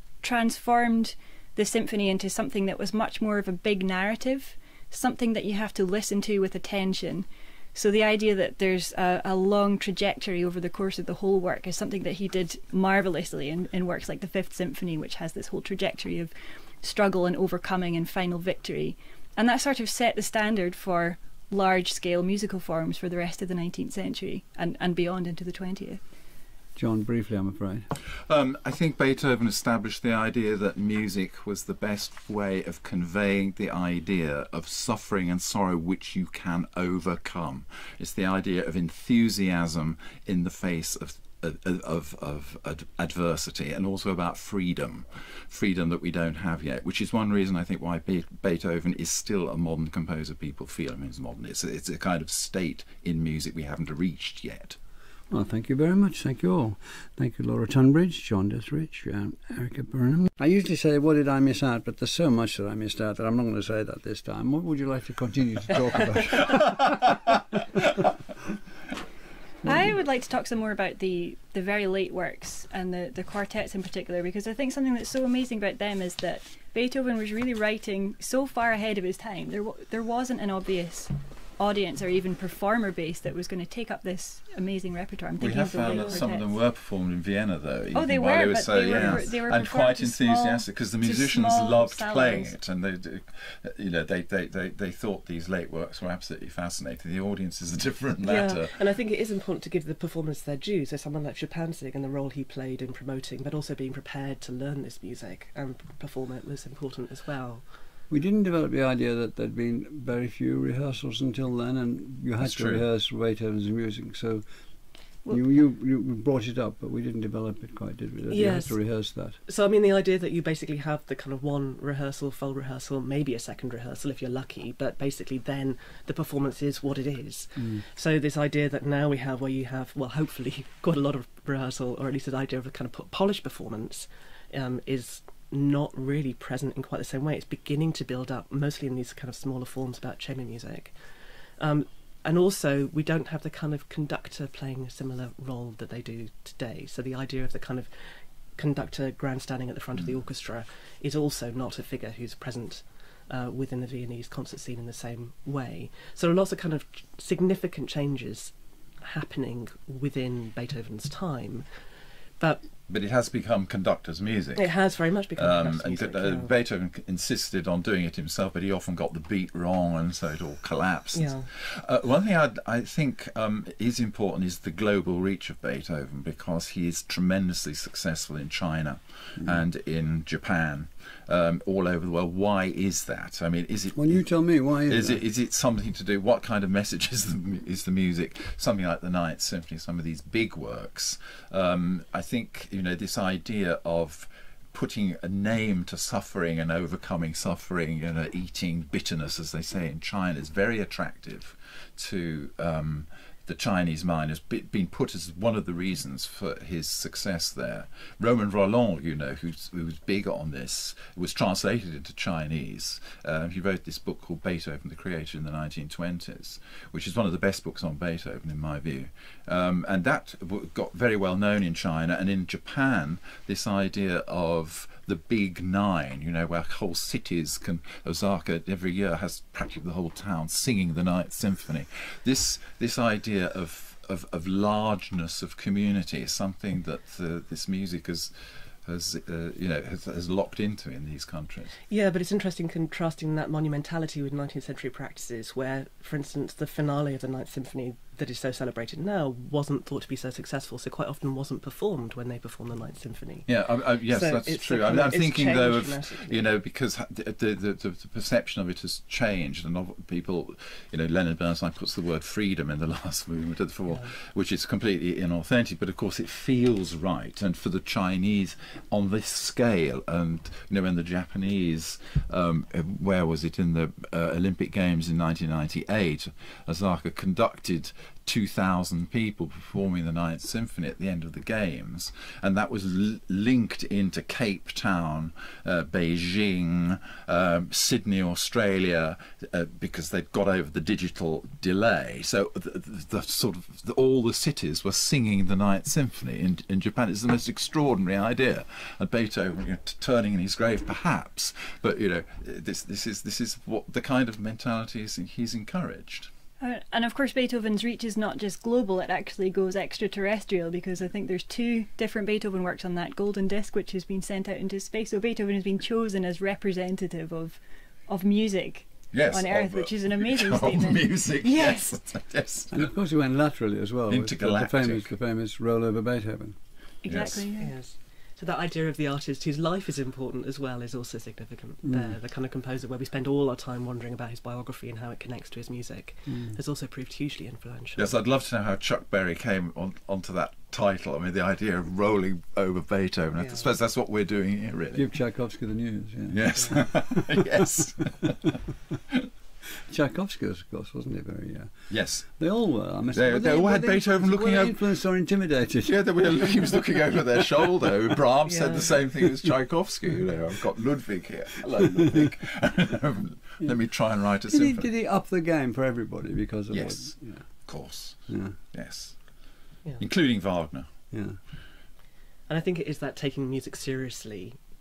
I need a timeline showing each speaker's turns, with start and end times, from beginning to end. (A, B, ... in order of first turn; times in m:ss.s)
0:00.2-0:26.0 A
0:26.8-0:27.9 B
0:28.3-0:54.8 C
0:55.3-1:07.3 B
1:09.6-1:26.5 A
1:25.4-1:38.7 C
1:27.9-1:32.6 A
1:38.2-1:47.6 D
1:48.1-1:54.4 B
1:52.4-1:52.8 C
1:55.3-1:59.4 B
1:58.3-1:58.8 D
1:59.4-2:20.9 D
2:07.6-2:07.8 B
2:21.6-2:41.6 D
2:42.9-2:44.7 C
2:44.6-2:46.5 D
2:45.4-3:04.2 C
2:51.1-2:51.5 D
3:03.9-3:05.2 B
3:04.9-3:58.3 C
3:58.8-4:01.8 C
4:01.9-4:16.5 D
4:13.5-5:06.3 C
5:06.6-5:22.0 A
5:19.1-5:22.9 C
5:22.7-5:26.6 B
5:24.1-5:25.0 C
5:27.0-5:27.7 A
5:27.1-5:27.4 C
5:27.6-5:38.1 D
5:31.9-5:32.1 B
5:36.3-5:36.6 B
5:38.0-5:45.0 C
5:43.4-5:43.7 D
5:44.9-5:47.4 B
5:46.3-5:48.6 C
5:49.9-5:51.7 B
5:51.9-5:52.3 C
5:52.3-5:56.8 B
5:53.1-5:54.8 C
5:55.8-6:04.9 C
5:58.4-5:59.0 D
6:04.5-6:07.4 B
6:06.7-6:09.2 C
6:08.3-6:08.6 B
6:10.0-6:10.9 C
6:11.1-6:11.4 B
6:12.5-6:14.6 D